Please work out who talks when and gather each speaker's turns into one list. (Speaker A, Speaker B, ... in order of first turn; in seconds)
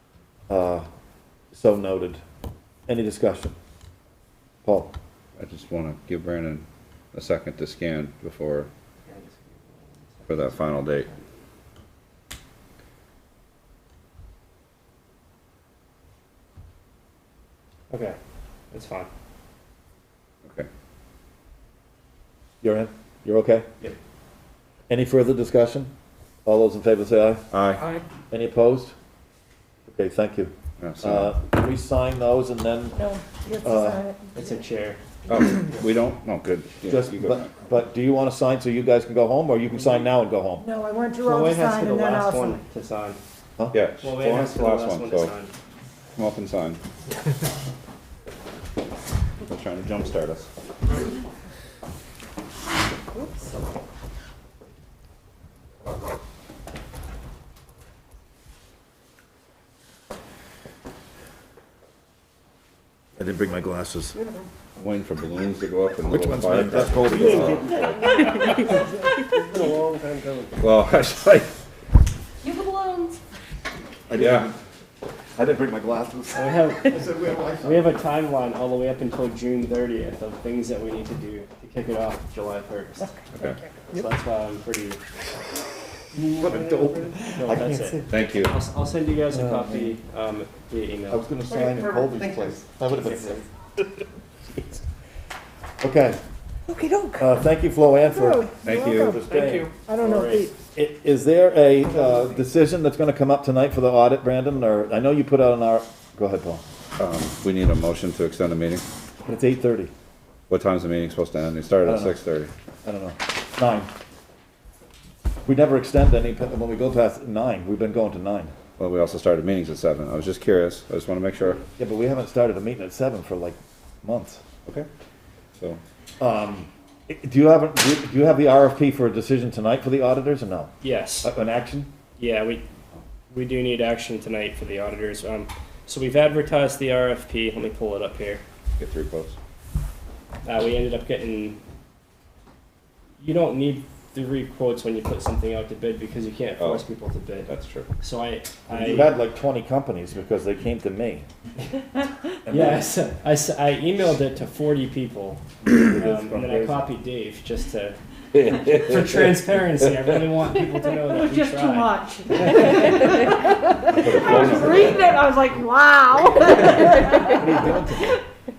Speaker A: 0.5-0.8, 1.5-2.2, 2.9-3.5, 4.6-4.9, 22.6-23.6, 24.9-25.9, 26.4-27.4, 28.3-28.9, 29.9-33.0, 33.6-34.0, 36.8-40.6, 63.2-64.2, 66.1-67.9, 74.1-74.5, 75.3-77.9, 86.2-88.1, 89.3-89.9, 91.1-94.8, 95.8-96.2, 97.2-99.7, 100.7-106.6, 109.2-109.9, 111.8-112.2, 112.8-113.9, 115.5-118.5, 121.8-124.4, 126.2-130.7, 131.2-131.9, 148.7-151.2, 152.5-152.8, 155.7-156.8, 164.0-165.0, 167.3-168.2
Speaker B: 5.4-8.7, 10.3-11.1, 27.5-27.9, 30.8-31.3, 35.3-37.4, 43.7-45.3, 46.2-46.8, 49.5-50.5, 64.8-68.5, 70.6-71.5, 74.1-74.5, 83.3-83.6, 88.1-88.5, 98.6-99.2, 107.0-108.8, 110.5-112.5, 118.8-121.6, 138.8-139.3, 146.6-146.8, 147.4-147.9, 164.0-165.0
Speaker C: 9.1-10.9, 17.9-18.1, 18.7-19.1, 34.3-35.0, 41.2-43.2, 44.0-45.5, 69.5-70.5, 76.3-83.3, 83.9-85.0, 86.1-91.2, 92.8-93.4, 100.0-100.5, 130.8-131.3, 132.2-132.6, 133.3-138.4, 140.4-141.6, 143.2-147.5, 148.0-149.1, 152.5-163.0
Speaker D: 33.0-34.2, 40.6-42.6, 96.7-97.2, 98.0-100.5, 161.2-167.8